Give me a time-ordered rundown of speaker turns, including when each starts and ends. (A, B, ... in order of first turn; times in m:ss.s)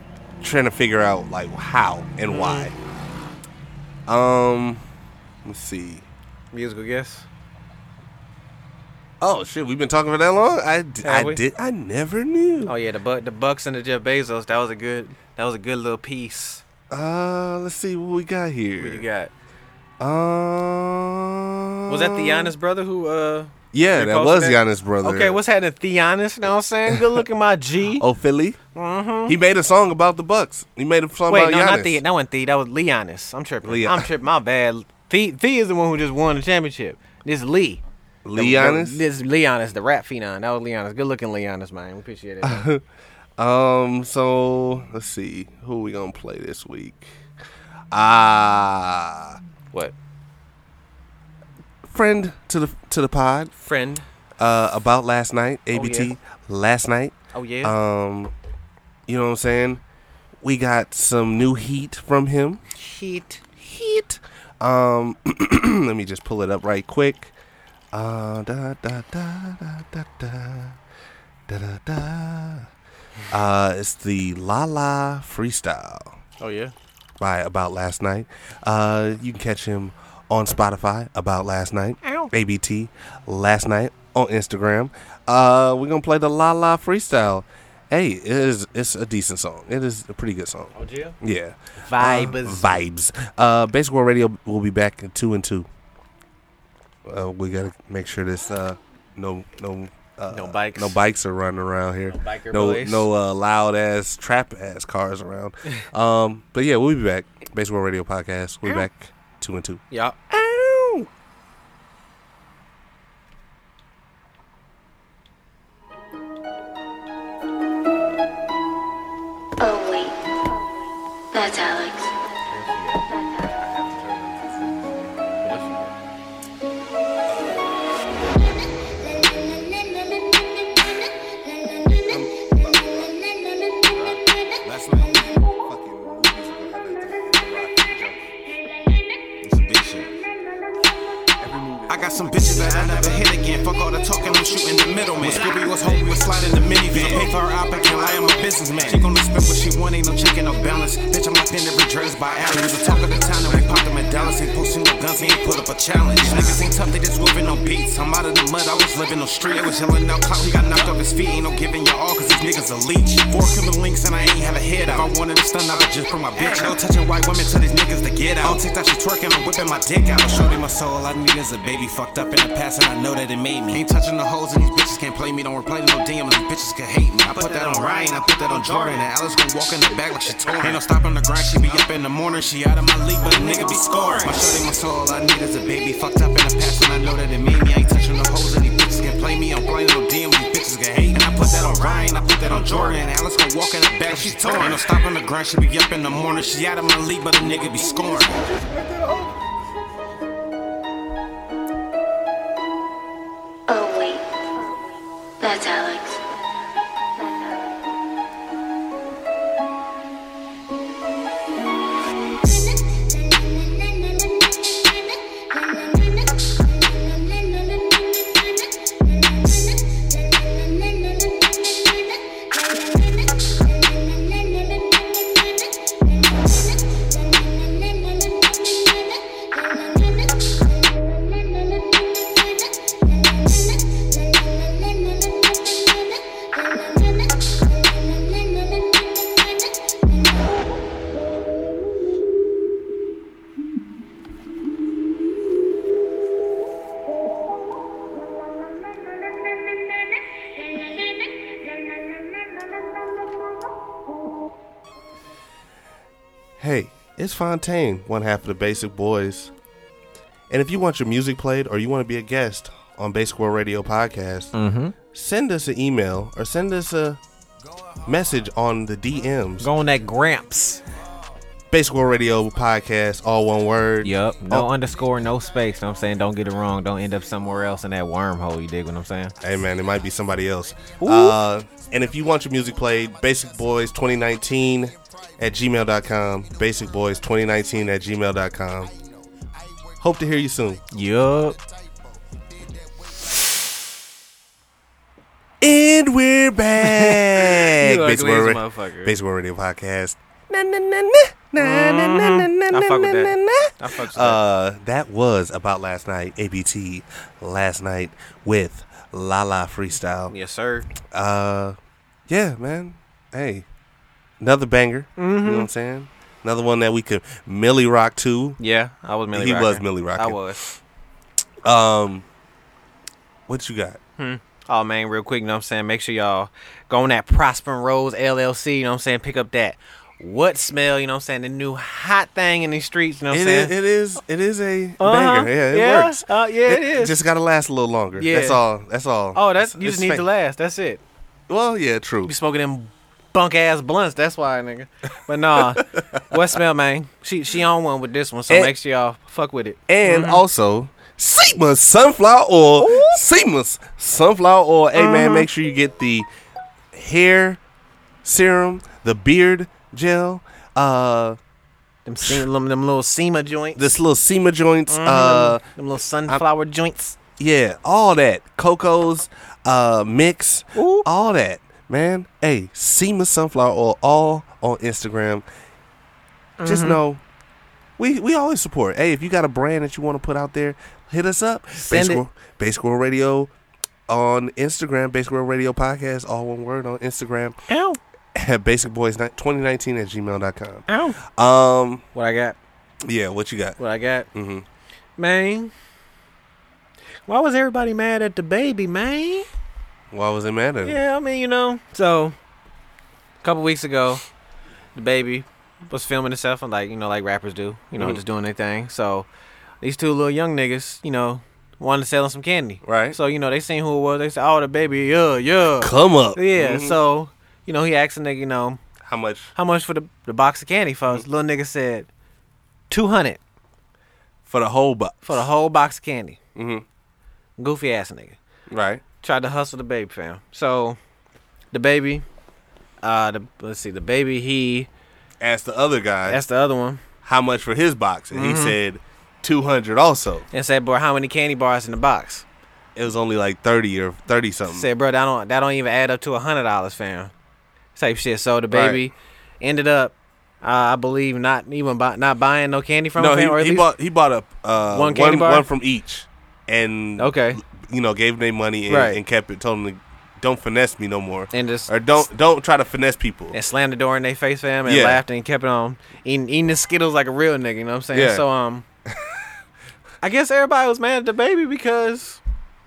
0:00.4-0:02.7 A
0:02.3-0:02.7 B
0:04.1-0:04.8 A
0:05.4-0:06.0 A
0:06.5-0:07.3 B
0:09.2-0:12.7 A
0:11.0-0:11.4 B
0:12.6-0:16.6 B
0:16.9-0:19.0 A
0:18.8-0:19.3 B
0:20.0-0:22.5 A
0:21.9-0:28.0 B
0:23.7-0:25.4 A
0:26.9-0:27.2 A
0:28.0-0:28.6 A
0:28.7-0:29.3 B
0:29.2-0:32.0 A
0:31.3-0:37.8 B
0:33.6-0:34.1 A
0:38.2-0:39.0 A
0:38.4-0:42.6 B
0:42.4-0:42.8 A
0:43.4-0:47.1 A
0:47.9-0:49.4 A
0:51.8-0:53.5 A
0:53.6-0:54.0 B
0:54.4-0:58.3 A
0:55.7-0:56.1 B
0:57.3-0:57.7 B
0:59.1-0:59.8 A
1:00.4-1:02.6 A
1:02.7-1:03.4 B
1:03.6-1:07.3 A
1:07.9-1:10.8 A
1:11.5-1:12.7 A
1:13.3-1:16.1 A
1:16.4-1:16.7 B
1:17.2-1:35.7 A
1:22.0-1:22.3 B
1:30.7-1:31.2 B
1:31.8-1:32.8 B
1:37.0-1:51.1 A
1:40.3-1:41.0 B
1:42.1-1:43.1 B
1:49.9-1:50.2 B
1:59.6-2:00.6 C
2:01.3-2:02.1 C
2:02.4-2:03.0 B
2:03.5-2:05.1 A
2:05.4-2:05.9 B
2:07.2-2:07.9 A
2:12.0-2:13.2 A
2:13.8-2:14.2 A
2:14.6-2:15.3 D
2:15.2-2:18.3 A
2:19.4-2:20.1 D
2:21.4-2:23.3 A
2:21.9-3:18.4 D
2:26.9-2:27.3 A
2:36.2-2:36.6 B
2:46.3-2:46.7 B
3:03.3-3:04.3 B
3:14.5-3:14.8 A
3:17.5-3:19.4 A
3:23.7-3:24.8 C
3:25.4-3:26.2 C
4:16.6-4:19.5 A
4:20.5-4:24.5 A
4:24.5-4:24.9 B
4:25.1-4:27.2 A
4:28.0-4:29.7 A
4:29.6-4:30.8 B
4:31.7-4:34.7 A
4:34.0-4:39.3 B
4:39.4-4:48.9 A
4:41.0-4:41.4 B
4:50.0-4:50.8 A
4:50.9-4:51.6 B
4:55.6-5:10.3 A
4:56.8-4:59.1 B
5:01.6-5:04.4 B
5:10.3-5:10.9 B
5:11.1-5:11.8 A
5:12.3-5:13.6 A
5:14.4-5:18.6 A
5:15.2-5:15.7 B
5:18.6-5:20.6 B
5:19.3-5:20.4 A
5:21.6-5:22.2 A
5:23.5-5:24.0 A
5:24.2-5:33.7 B
5:33.3-5:40.2 A
5:35.0-5:37.1 B
5:38.2-5:38.6 B
5:39.3-5:41.0 B
5:41.5-5:42.3 A
5:42.2-5:50.4 B
5:45.6-5:46.2 A
5:49.9-5:56.3 A
5:52.8-5:53.2 B
5:55.0-5:55.5 B
5:56.9-5:57.6 A
5:58.2-6:01.4 A
6:02.0-6:03.8 B
6:03.8-6:05.6 A
6:04.9-6:07.2 B
6:07.4-6:15.4 A
6:10.7-6:11.0 B
6:16.6-6:17.0 B
6:16.6-6:17.2 A
6:18.0-6:23.5 A
6:21.7-6:22.2 B
6:24.1-6:27.6 A
6:27.7-6:28.0 B
6:28.3-6:32.0 A
6:30.9-6:31.2 B
6:32.1-6:32.6 B
6:33.0-6:33.8 A
6:33.8-6:34.3 B
6:34.3-6:34.6 A
6:35.2-6:35.7 B
6:37.3-6:39.5 B
6:40.1-6:41.0 A
6:40.8-6:42.3 B
6:43.4-6:44.2 B
6:44.9-6:49.3 B
6:49.8-6:58.8 B
6:52.8-6:53.2 A
6:55.8-6:57.0 A
6:59.0-6:59.5 A
6:59.6-7:02.1 B
7:02.9-7:03.4 B
7:04.5-7:05.4 A
7:05.2-7:06.4 B
7:06.5-7:06.8 A
7:07.6-7:08.4 B
7:08.7-7:09.0 A
7:09.2-7:11.0 B
7:11.7-7:12.2 B
7:13.0-7:14.9 B
7:15.4-7:16.4 A
7:16.3-7:17.0 B
7:17.2-7:20.4 A
7:18.3-7:18.8 B
7:20.5-7:22.4 B
7:22.9-7:24.9 A
7:24.7-7:27.3 B
7:28.0-7:33.9 B
7:28.7-7:29.0 A
7:33.2-7:43.6 A
7:34.9-7:35.6 B
7:37.2-7:37.6 B
7:38.9-7:39.2 B
7:41.5-7:41.9 B
7:43.5-7:48.8 B
7:44.8-7:45.2 A
7:48.1-7:48.4 A
7:49.1-7:49.4 A
7:50.2-7:52.4 B